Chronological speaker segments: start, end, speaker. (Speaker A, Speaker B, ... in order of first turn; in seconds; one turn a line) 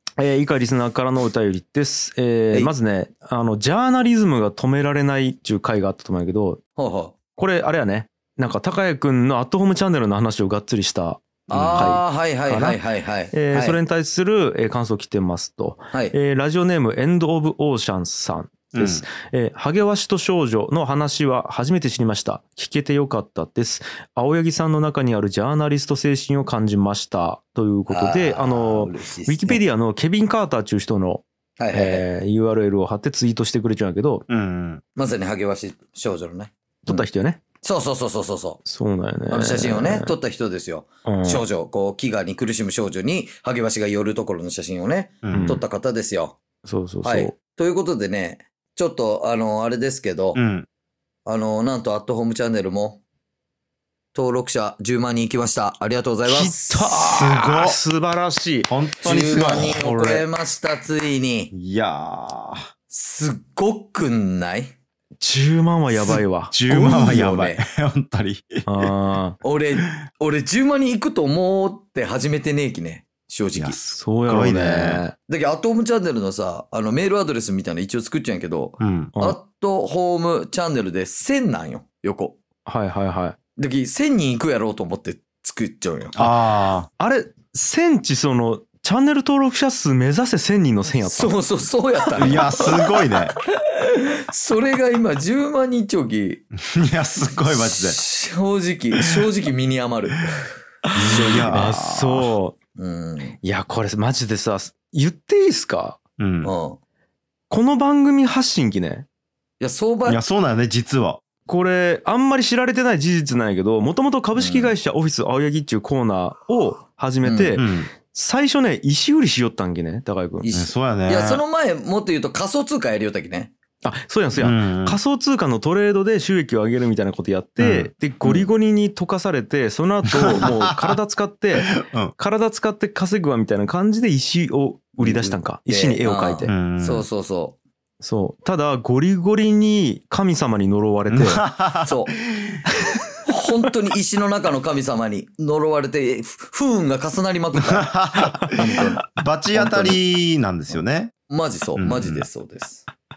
Speaker A: 0.2-6.6
Speaker B: 6.8-7.1
Speaker A: 7.3-12.8
Speaker B: 11.5-13.8
Speaker C: 11.5-12.0
Speaker A: 13.3-34.2
Speaker C: 18.7-19.0
Speaker B: 27.9-29.6
Speaker B: 31.6-32.0
Speaker C: 34.3-34.8
Speaker B: 35.0-37.0
Speaker A: 36.9-37.4
Speaker B: 37.6-38.6
Speaker A: 38.6-40.1
Speaker B: 39.3-46.4
Speaker A: 41.0-41.4
Speaker C: 45.2-45.6
Speaker A: 45.3-45.6
Speaker A: 46.6-47.4
Speaker B: 47.0-50.4
Speaker C: 50.3-50.7
Speaker B: 51.2-53.0
Speaker B: 54.1-56.9
Speaker A: 56.2-58.7
Speaker C: 57.0-57.8
Speaker C: 58.7-60.2
Speaker B: 59.0-61.5
Speaker C: 61.5-62.7
Speaker B: 62.9-64.7
Speaker A: 65.2-66.5
Speaker C: 66.1-68.9
Speaker B: 66.7-67.6
Speaker A: 68.7-69.4
Speaker B: 69.4-73.8
Speaker C: 73.5-75.0
Speaker A: 73.9-75.1
Speaker B: 75.3-82.4
Speaker C: 78.8-79.1
Speaker A: 82.7-83.4
Speaker B: 83.6-86.2
Speaker C: 86.1-86.9
Speaker A: 87.0-91.3
Speaker B: 91.0-96.4
Speaker C: 92.2-93.3
Speaker C: 96.5-98.0
Speaker B: 97.5-101.5
Speaker A: 100.9-102.5
Speaker C: 101.0-102.3
Speaker B: 102.8-103.4
Speaker A: 103.4-106.0
Speaker C: 106.2-106.5
Speaker B: 106.4-106.8
Speaker A: 107.5-109.0
Speaker B: 109.6-110.2
Speaker C: 110.0-111.2
Speaker A: 111.5-120.5
Speaker B: 114.3-114.7
Speaker B: 117.2-117.6
Speaker C: 117.5-117.9
Speaker B: 120.4-123.5
Speaker C: 120.5-121.4
Speaker A: 123.8-136.5
Speaker C: 124.4-125.0
Speaker C: 127.6-127.9
Speaker B: 128.2-128.5
Speaker C: 130.1-131.0
Speaker C: 131.7-132.1
Speaker B: 135.0-137.6
Speaker C: 136.5-137.1
Speaker A: 138.0-141.4
Speaker C: 141.1-142.6
Speaker B: 141.8-142.1
Speaker B: 143.2-147.9
Speaker C: 147.6-151.1
Speaker B: 148.5-150.0
Speaker B: 150.7-152.8
Speaker C: 151.8-152.2